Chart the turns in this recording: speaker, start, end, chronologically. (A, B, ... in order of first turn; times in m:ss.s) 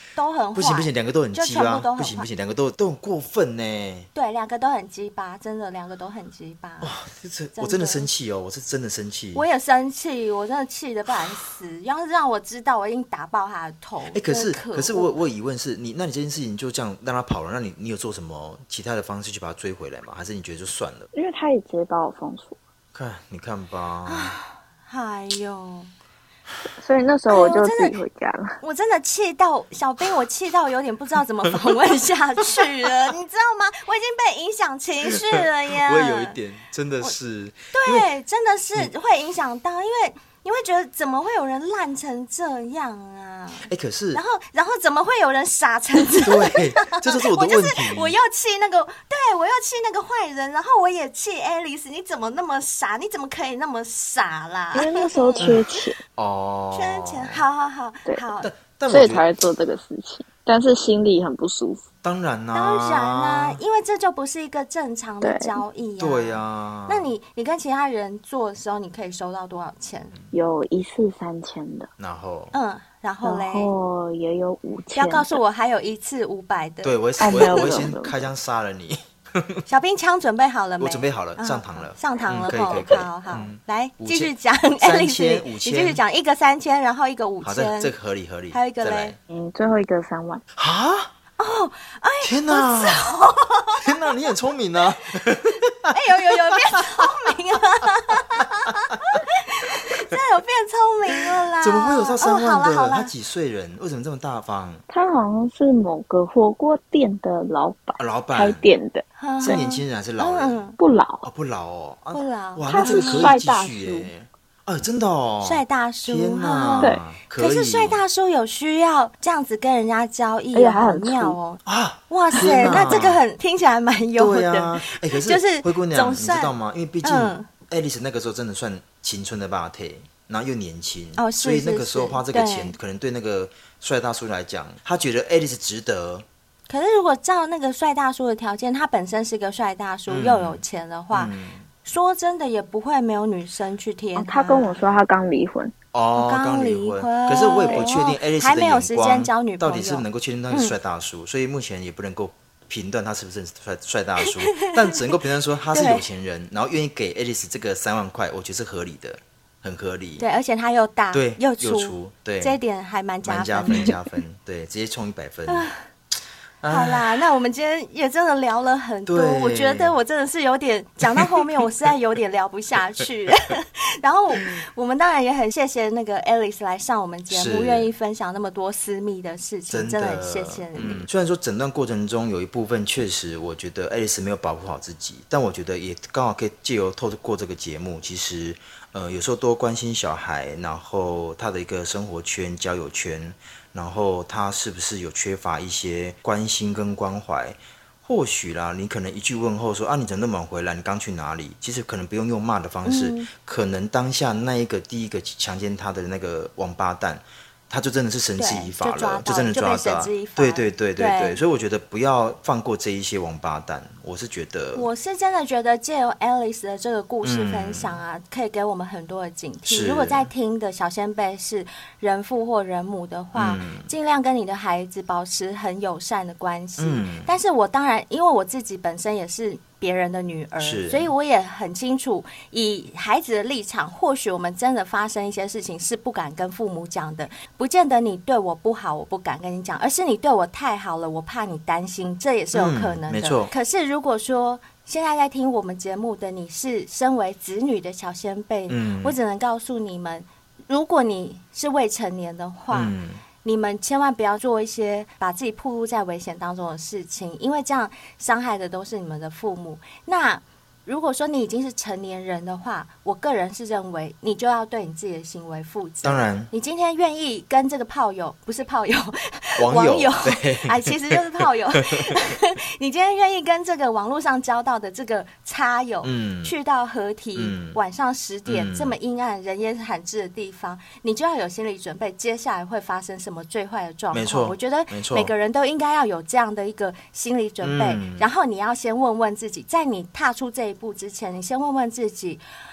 0:00.2-0:02.3 A
0:00.6-0:04.1 B
0:04.2-0:06.9 A
0:06.8-0:09.5 B
0:07.6-0:08.1 A
0:09.4-0:15.1 A
0:14.1-0:21.1 B
0:21.1-0:22.6 C
0:22.9-0:24.4 B
0:24.1-0:25.9 A
0:26.8-0:28.6 C
0:27.3-0:28.0 A
0:28.6-0:36.4 A
0:35.1-0:38.1 B
0:37.7-0:55.5 A
0:43.6-0:44.2 B
0:46.2-0:48.2 B
0:54.7-0:56.0 C
0:56.2-0:57.4 B
0:56.7-0:58.5 A
0:58.4-0:59.2 B
0:58.9-1:01.9 C
1:02.0-1:03.6 B
1:02.5-1:10.1 A
1:05.2-1:05.6 C
1:06.0-1:07.1 B
1:10.3-1:11.9 C
1:12.0-1:12.5 B
1:12.5-1:13.7 A
1:13.2-1:15.4 C
1:15.0-1:17.9 A
1:16.8-1:19.6 B
1:17.2-1:18.3 C
1:19.7-1:27.9 A
1:20.8-1:26.0 B
1:27.4-1:29.2 B
1:28.5-1:29.2 A
1:29.3-1:30.4 C
1:30.6-1:31.1 B
1:31.4-1:34.0 A
1:32.2-1:33.1 B
1:33.8-1:37.3 B
1:35.9-1:43.1 A
1:41.6-1:44.8 B
1:44.9-1:49.6 C
1:48.0-1:48.6 B
1:49.2-1:50.8 A
1:49.4-1:50.6 B
1:50.8-1:51.3 C
1:51.2-1:58.0 B
1:52.1-1:53.4 A
1:52.7-1:54.1 C
1:55.4-2:07.5 A
2:00.5-2:01.4 C
2:01.6-2:03.2 B
2:02.5-2:02.8 C
2:04.2-2:16.3 B
2:11.2-2:12.8 A
2:16.7-2:21.3 A
2:20.1-2:21.7 B
2:21.8-2:24.8 A
2:24.2-2:25.7 C
2:25.9-2:40.2 B
2:26.2-2:30.8 A
2:34.5-2:35.0 A
2:35.7-2:36.1 A
2:40.2-2:44.0 A
2:41.1-2:42.6 B
2:43.2-2:45.7 B
2:45.5-2:45.8 A
2:46.6-2:47.1 B
2:46.7-3:01.1 A
2:49.1-2:50.0 B
2:51.1-2:51.5 B
2:57.3-2:57.9 B
2:59.7-3:34.9 B
3:22.8-3:23.3 A
3:28.4-3:31.4 A
3:34.7-4:52.4 A
3:37.2-3:38.0 B
3:39.7-3:40.3 B
3:43.4-3:43.9 B
3:46.8-3:47.3 B
3:50.6-3:51.1 B
4:02.5-4:03.5 B
4:08.7-4:09.2 B
4:12.7-4:13.2 B
4:26.0-4:26.5 B
4:29.6-4:32.2 B
4:36.0-4:36.5 B
4:37.4-4:37.8 B
4:38.5-4:39.0 B
4:44.1-4:45.3 B
4:47.6-4:48.3 B